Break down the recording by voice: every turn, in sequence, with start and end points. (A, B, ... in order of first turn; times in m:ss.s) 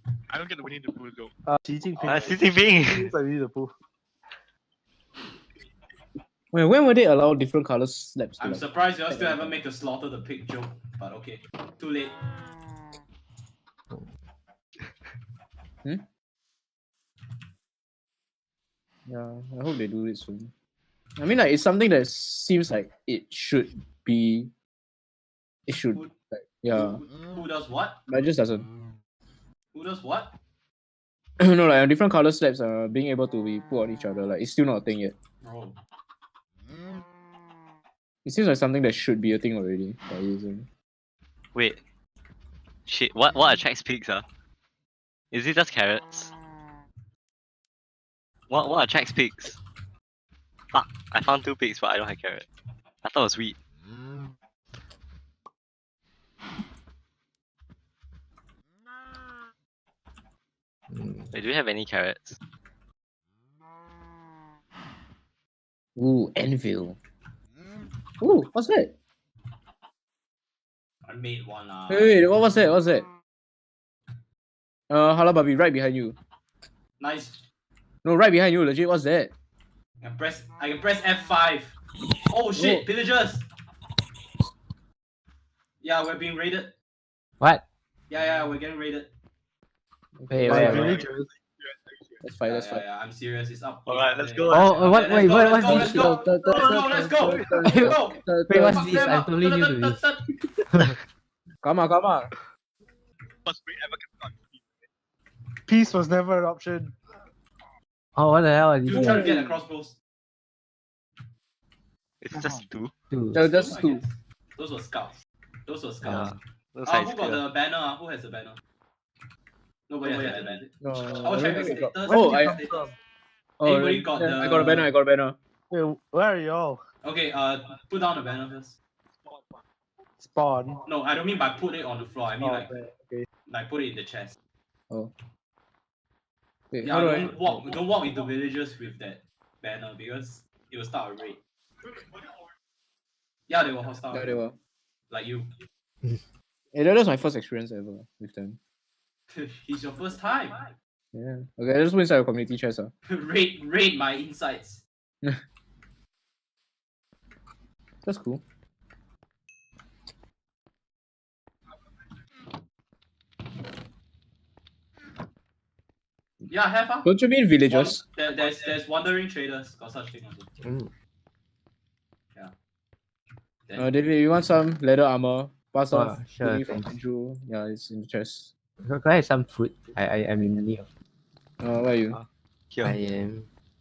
0:00.3-0:01.3 A
0:01.5-0:03.7 B
0:02.0-0:03.1 C
0:06.5-0:09.6 D
0:08.4-0:12.2 E
0:19.1-0:20.5 D
0:21.2-0:24.5 D
0:25.7-0:27.0 D
0:26.7-0:28.0 E
0:28.1-0:28.7 D
0:29.7-0:30.4 E
0:31.4-0:35.2 D
0:35.4-0:35.8 E
0:38.2-0:40.7 D
0:41.5-0:41.8 C
0:42.9-0:44.2 C
0:45.3-0:46.3 C
0:48.5-0:49.6 C
0:50.7-0:52.5 C
0:53.0-0:53.6 C
1:01.3-1:02.4 C
1:06.0-1:07.0 D
1:08.2-1:08.9 D
1:11.1-1:12.2 E
1:11.9-1:13.1 D
1:14.9-1:16.2 D
1:17.0-1:17.4 E
1:18.0-1:19.3 D
1:20.0-1:21.8 E
1:22.3-1:23.5 E
1:25.8-1:26.7 E
1:27.4-1:27.6 F
1:28.1-1:29.1 E
1:30.2-1:31.0 D
1:30.3-1:31.0 F
1:30.5-1:31.3 B
1:30.8-1:32.2 A
1:32.2-1:32.8 D
1:32.5-1:40.3 E
1:33.9-1:34.9 C
1:34.5-1:36.3 F
1:35.6-1:39.1 D
1:37.6-1:40.0 F
1:41.6-1:42.3 D
1:43.5-1:44.9 A
1:45.7-1:47.0 B
1:48.2-1:49.3 F
1:48.9-1:50.0 E
1:49.0-1:49.5 D
1:52.2-1:52.9 C
1:53.1-1:53.4 F
1:53.3-1:54.0 D
1:53.4-1:58.6 E
1:56.0-1:57.4 C
1:59.9-2:02.9 E
2:00.8-2:02.6 D
2:02.0-2:02.9 B
2:03.6-2:05.4 D
2:03.6-2:04.9 E
2:05.7-2:06.8 B
2:07.0-2:08.8 E
2:09.3-2:09.6 A
2:10.2-2:10.8 B
2:10.9-2:12.7 E
2:12.4-2:13.3 B
2:13.5-2:14.4 E
2:16.7-2:17.6 D
2:16.8-2:21.4 E
2:23.5-2:24.3 E
2:24.1-2:24.6 D
2:25.1-2:25.5 E
2:26.7-2:28.6 D
2:29.3-2:30.7 E
2:31.1-2:32.9 D
2:33.1-2:34.8 E
2:38.0-2:38.4 D
2:46.5-2:47.1 E
2:47.0-2:48.0 D
2:47.7-2:50.5 E
2:50.6-2:50.9 F
2:53.7-2:54.0 E
2:53.8-2:58.5 D
2:55.9-2:56.9 F
2:58.8-3:00.9 F
3:01.6-3:02.2 D
3:02.1-3:03.0 C
3:02.8-3:03.5 F